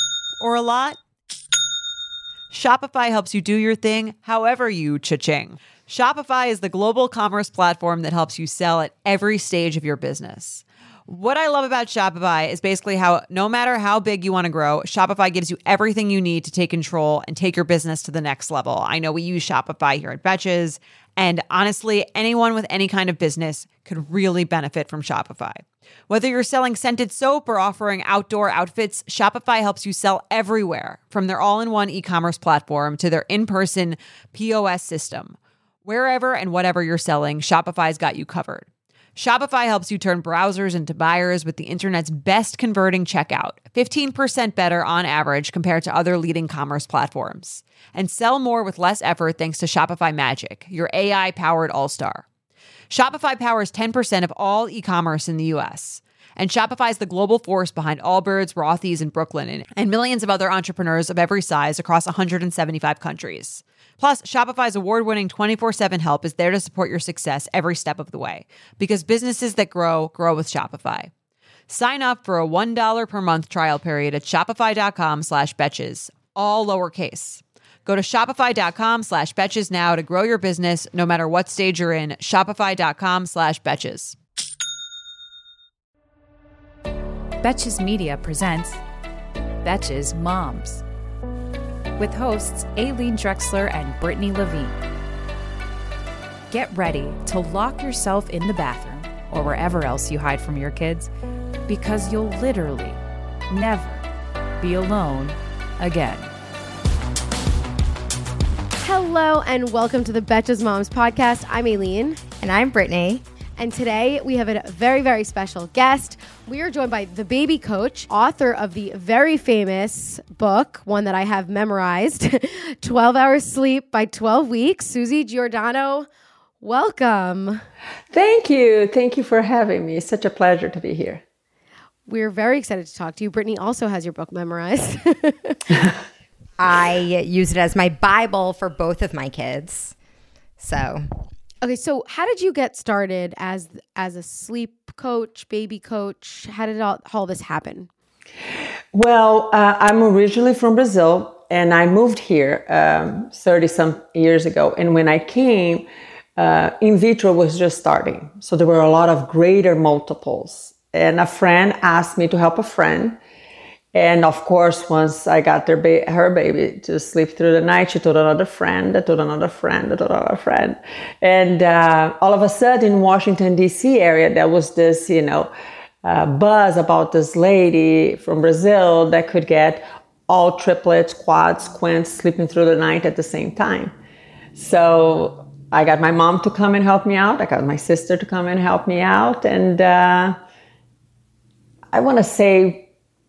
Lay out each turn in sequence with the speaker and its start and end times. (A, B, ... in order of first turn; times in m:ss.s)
0:00.4-0:01.0 A
0:02.5-0:52.2 A
0:52.9-1:11.1 A
1:11.7-1:24.2 A
1:27.4-1:28.8 B
1:29.6-1:30.8 B
1:32.0-1:34.8 B
1:36.5-1:41.1 B
1:41.7-1:44.0 B
1:44.6-1:46.3 B
1:48.8-1:52.2 C
1:52.4-1:53.2 D
1:53.6-2:06.1 C
2:06.6-2:07.6 C
2:08.1-2:11.2 E
2:12.1-2:15.8 C
2:16.6-2:19.9 D
2:20.6-2:21.0 D
2:21.6-2:27.9 C
2:28.9-2:43.2 E
2:43.9-2:55.5 E
2:56.0-3:03.9 E
3:04.5-3:10.4 E
3:11.9-3:12.9 E